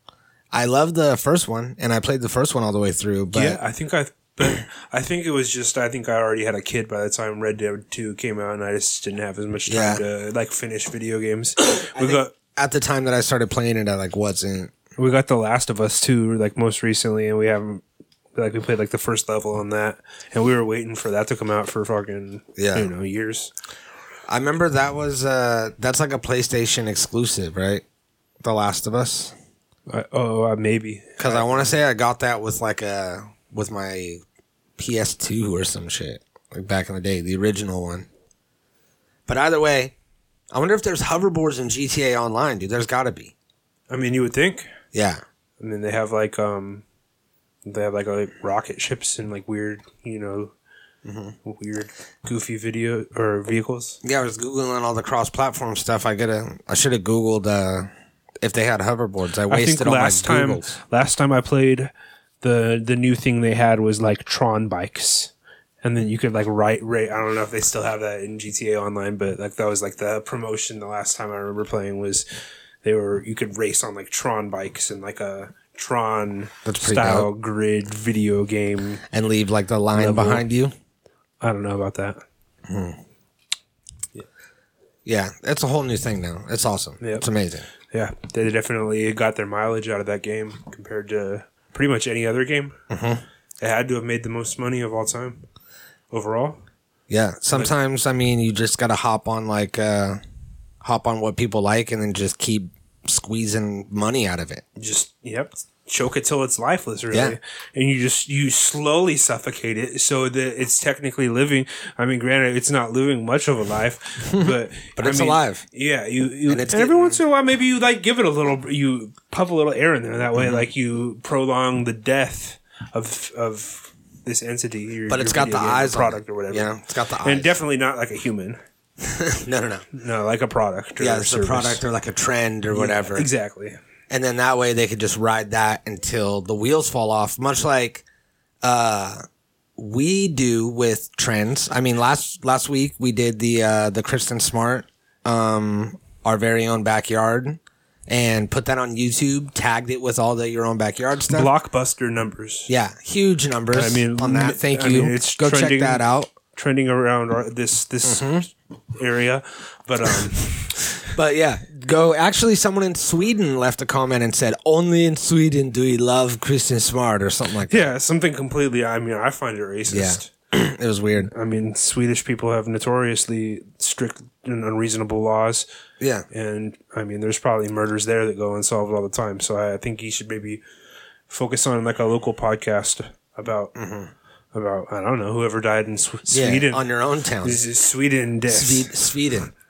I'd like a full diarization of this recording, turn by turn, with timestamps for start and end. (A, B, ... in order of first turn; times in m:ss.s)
0:00.5-0:03.6 A
0:03.3-0:12.3 B
0:09.7-0:10.0 A
0:11.7-0:14.7 A
0:15.0-0:17.8 B
0:18.3-0:23.5 B
0:22.6-0:22.9 A
0:24.3-0:27.8 A
0:28.4-0:29.3 A
0:29.9-0:31.7 B
0:31.2-0:34.2 A
0:34.8-0:38.1 A
0:39.3-0:39.9 A
0:40.5-0:43.3 A
0:43.9-0:44.7 B
0:44.9-0:45.2 A
0:45.6-0:46.8 B
0:47.6-0:50.5 B
0:51.0-0:51.4 A
0:51.4-0:54.0 B
0:54.0-0:57.9 A
0:58.4-1:00.8 A
0:59.5-1:01.9 B
1:02.4-1:12.2 B
1:12.8-1:19.0 B
1:16.6-1:17.3 A
1:19.1-1:20.7 A
1:19.9-1:20.4 B
1:21.4-1:22.2 B
1:22.7-1:23.0 A
1:25.0-1:27.6 A
1:27.0-1:27.2 B
1:27.9-1:32.8 B
1:32.9-1:33.2 A
1:33.6-1:35.4 B
1:36.1-1:36.6 B
1:37.1-1:40.2 A
1:40.8-1:44.6 A
1:44.8-2:06.7 B
1:47.1-1:47.4 A
1:54.2-1:55.6 A
1:56.5-1:57.2 A
2:00.3-2:00.6 A
2:05.1-2:07.6 A
2:07.2-2:08.6 B
2:09.0-2:09.8 A
2:09.9-2:11.8 B
2:11.0-2:13.3 A
2:12.7-2:13.8 B
2:14.1-2:18.0 A
2:18.6-2:19.2 A
2:19.8-2:31.5 A
2:31.3-2:32.7 B
2:32.7-2:36.3 A
2:33.7-2:41.0 B
2:38.0-2:38.4 A
2:41.1-2:47.9 A
2:47.7-2:50.3 B
2:49.9-2:51.3 A
2:51.2-2:55.6 B
2:56.0-2:56.2 A
2:56.3-3:00.6 B
3:01.3-3:03.7 B
3:03.7-3:04.1 A
3:04.5-3:06.8 B
3:06.3-3:07.6 A
3:07.4-3:08.9 B
3:08.5-3:09.5 A